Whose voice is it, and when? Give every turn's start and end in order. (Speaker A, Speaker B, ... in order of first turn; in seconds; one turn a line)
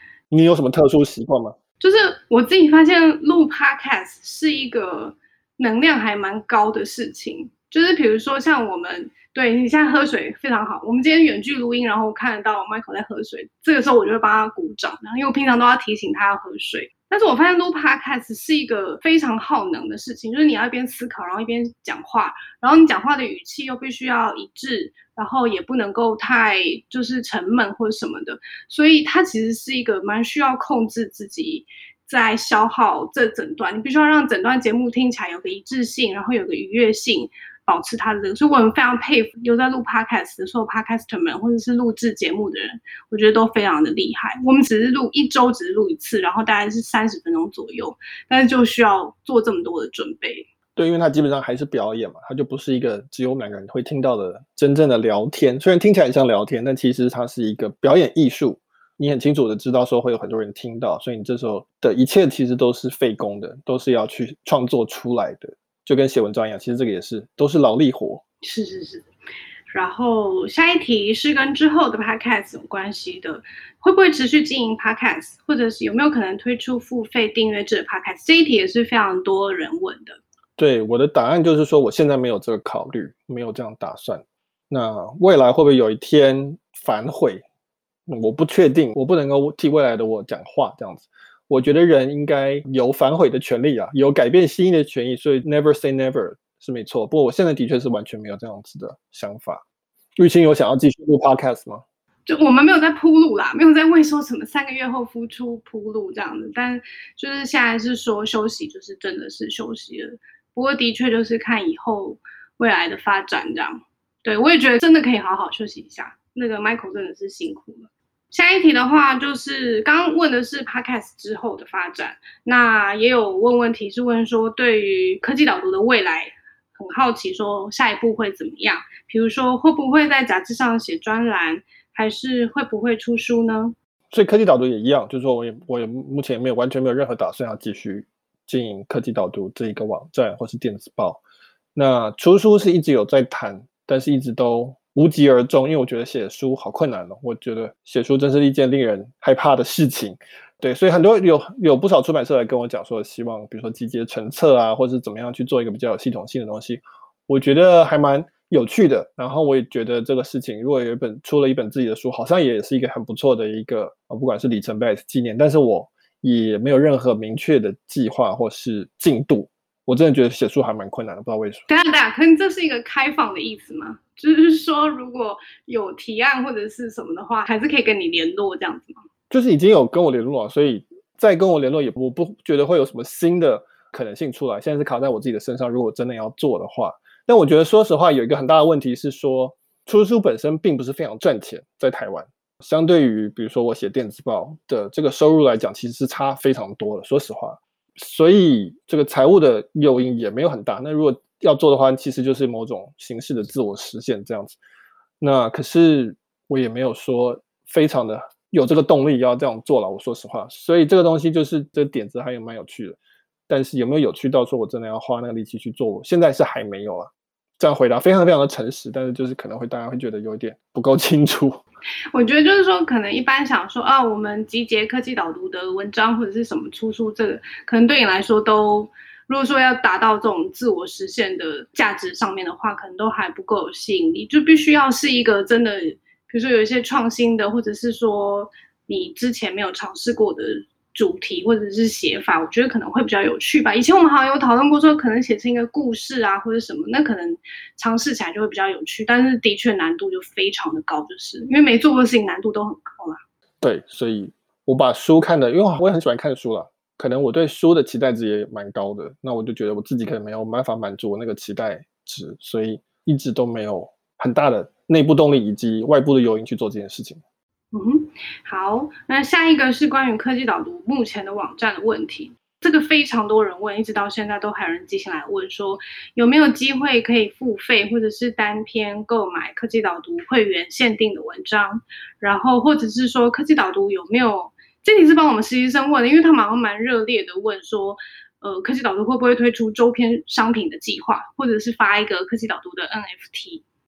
Speaker A: 0.3-1.6
Speaker B: 1.8-50.5
Speaker A: 50.8-68.2
Speaker B: 68.4-69.1
Speaker B: 69.7-80.2
Speaker A: 80.6-87.4
Speaker A: 88.1-99.6
Speaker A: 100.2-101.8
Speaker B: 102.3-133.8
Speaker A: 134.1-141.2
Speaker A: 141.8-171.6
Speaker B: 171.7-179.0
Speaker A: 179.3-204.6
Speaker A: 205.2-213.0
Speaker A: 213.5-221.6
Speaker B: 222.1-253.2
Speaker A: 253.6-267.2
Speaker B: 267.7-293.6